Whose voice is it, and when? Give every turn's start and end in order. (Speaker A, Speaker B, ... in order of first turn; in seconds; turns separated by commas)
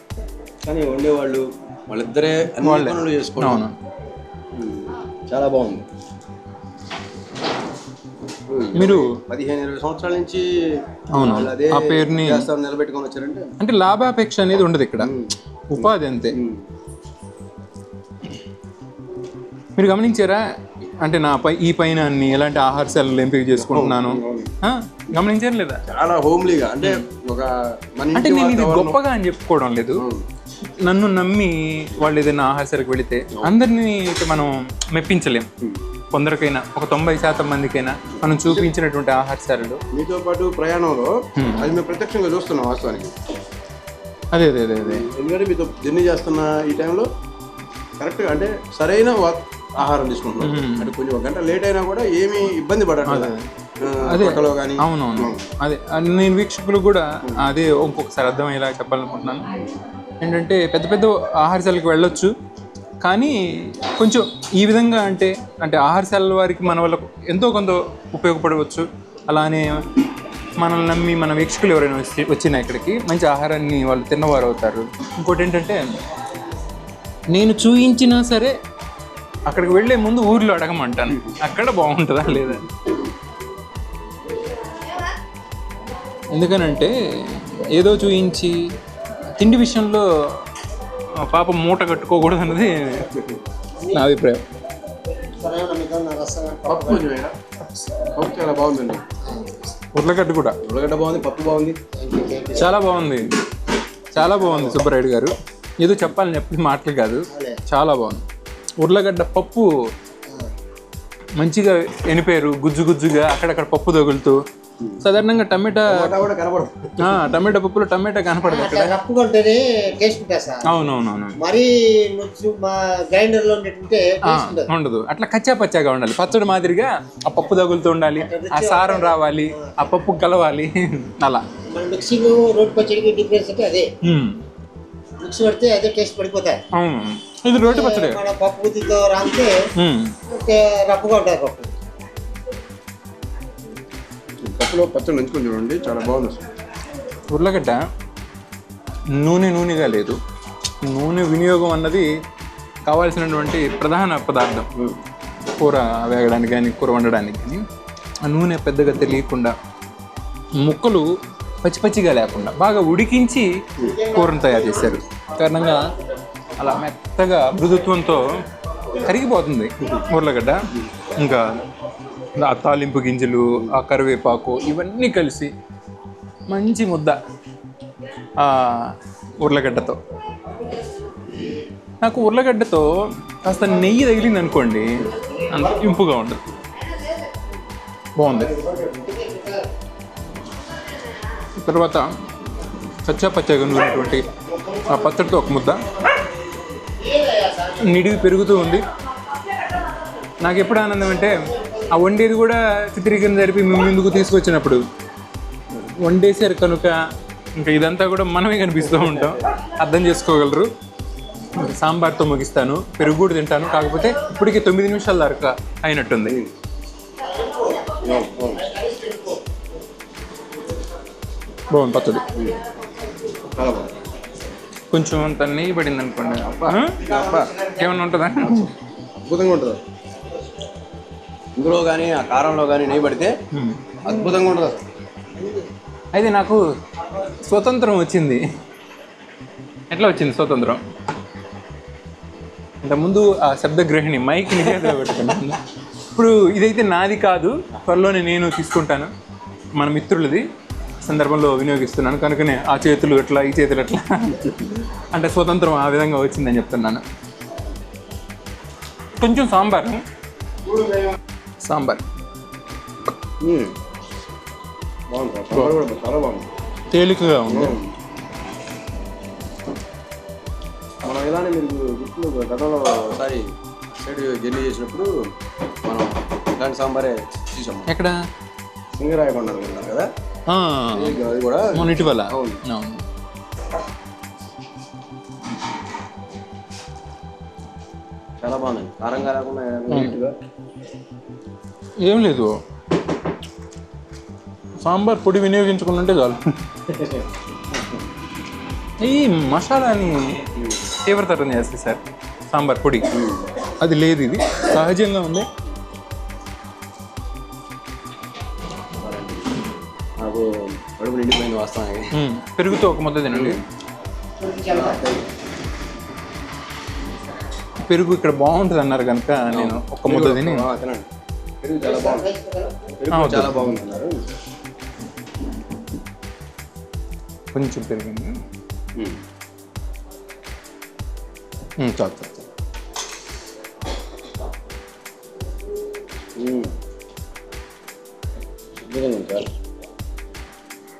Speaker A: 0.7-3.6, Speaker B: 2.6-3.7, Speaker A: 4.5-5.9, Speaker A: 8.5-13.5, Speaker B: 8.8-9.1, Speaker B: 11.1-12.5, Speaker B: 13.6-15.1, Speaker A: 15.0-16.6, Speaker B: 15.7-16.4, Speaker B: 19.8-20.4, Speaker B: 21.0-25.8, Speaker A: 23.6-24.5, Speaker A: 25.9-29.0, Speaker B: 28.1-30.1, Speaker A: 30.0-30.2, Speaker B: 30.8-35.5, Speaker B: 36.1-39.8, Speaker A: 39.9-43.1, Speaker B: 41.4-41.7, Speaker B: 44.3-45.0, Speaker A: 44.8-47.1, Speaker A: 48.0-55.4, Speaker B: 50.4-50.9, Speaker B: 53.1-53.4, Speaker B: 54.1-59.5, Speaker B: 60.2-62.3, Speaker B: 63.0-69.8, Speaker B: 70.6-75.8, Speaker B: 77.3-78.5, Speaker B: 79.5-82.7, Speaker B: 86.3-88.5, Speaker B: 89.3-90.0, Speaker B: 91.2-93.1, Speaker B: 93.9-94.4, Speaker C: 95.1-97.1, Speaker A: 96.7-97.3, Speaker A: 98.1-99.0, Speaker C: 99.2-99.8, Speaker B: 99.9-100.6, Speaker A: 100.7-101.8, Speaker C: 102.0-102.8, Speaker B: 102.6-103.3, Speaker B: 104.1-108.2, Speaker C: 104.2-104.8, Speaker C: 107.3-107.6, Speaker B: 108.8-109.7, Speaker B: 111.4-114.4, Speaker B: 115.0-116.0, Speaker A: 115.9-117.2, Speaker B: 117.0-118.9, Speaker C: 118.4-120.8, Speaker B: 120.7-121.4, Speaker C: 121.4-124.7, Speaker B: 124.3-131.4, Speaker C: 128.2-129.8, Speaker C: 131.7-133.9, Speaker B: 134.0-134.4, Speaker C: 135.2-136.6, Speaker B: 136.8-138.2, Speaker C: 137.5-139.6, Speaker B: 139.8-140.1, Speaker C: 140.3-141.7, Speaker A: 144.4-146.4, Speaker B: 147.3-147.8, Speaker B: 149.2-150.2, Speaker B: 150.8-152.1, Speaker B: 152.9-154.7, Speaker B: 155.6-157.6, Speaker B: 158.2-159.6, Speaker B: 160.6-161.1, Speaker B: 161.6-163.5, Speaker C: 163.8-165.0, Speaker B: 164.1-165.8, Speaker B: 166.6-168.3, Speaker B: 169.0-171.6, Speaker B: 172.4-175.5, Speaker B: 176.5-177.2, Speaker B: 178.4-180.0, Speaker B: 182.0-182.9, Speaker B: 183.4-186.4, Speaker B: 188.2-188.5, Speaker C: 188.3-189.7, Speaker B: 191.6-192.1, Speaker B: 193.0-194.3, Speaker C: 194.4-195.1, Speaker B: 194.9-195.8, Speaker C: 196.8-198.2, Speaker B: 197.8-198.8, Speaker B: 200.4-204.8, Speaker C: 201.6-201.9, Speaker B: 205.8-206.9, Speaker B: 207.6-210.7, Speaker B: 211.5-216.4, Speaker A: 216.3-216.6, Speaker C: 217.3-218.0, Speaker A: 218.0-218.7, Speaker C: 218.6-219.4, Speaker B: 221.7-222.3, Speaker A: 223.6-223.9, Speaker B: 224.9-228.7, Speaker A: 226.4-227.4, Speaker C: 227.0-227.9, Speaker A: 229.2-229.8, Speaker A: 231.6-233.3, Speaker B: 233.5-233.8, Speaker A: 234.0-234.9, Speaker C: 235.4-235.7, Speaker B: 236.1-236.6, Speaker B: 237.2-238.4, Speaker B: 239.9-240.8, Speaker B: 242.8-245.6, Speaker B: 246.1-249.1, Speaker B: 249.8-250.4, Speaker B: 251.0-257.0, Speaker B: 259.2-260.0, Speaker B: 261.6-262.0, Speaker A: 263.4-263.7, Speaker A: 265.1-266.5, Speaker B: 266.9-267.8, Speaker A: 267.5-267.9, Speaker A: 271.0-275.1, Speaker A: 275.8-277.9, Speaker B: 277.9-278.2, Speaker A: 279.0-280.1, Speaker B: 280.5-281.2, Speaker A: 280.9-282.6, Speaker B: 281.7-283.0, Speaker A: 288.4-290.3, Speaker B: 292.0-292.6, Speaker B: 294.8-296.4, Speaker A: 296.9-297.2, Speaker B: 299.0-300.4, Speaker B: 301.1-302.0, Speaker B: 302.5-303.1, Speaker A: 303.1-303.5, Speaker B: 303.8-305.5, Speaker A: 309.0-309.7, Speaker A: 310.2-312.1, Speaker B: 312.1-313.6, Speaker A: 313.3-313.6, Speaker C: 314.4-315.1, Speaker A: 314.7-315.2, Speaker B: 317.9-320.6, Speaker A: 319.5-321.1, Speaker A: 321.6-322.3, Speaker C: 321.8-322.9, Speaker A: 323.0-324.2, Speaker B: 323.1-323.6, Speaker B: 327.5-328.3, Speaker B: 331.8-332.4, Speaker A: 336.4-336.7, Speaker A: 338.8-339.5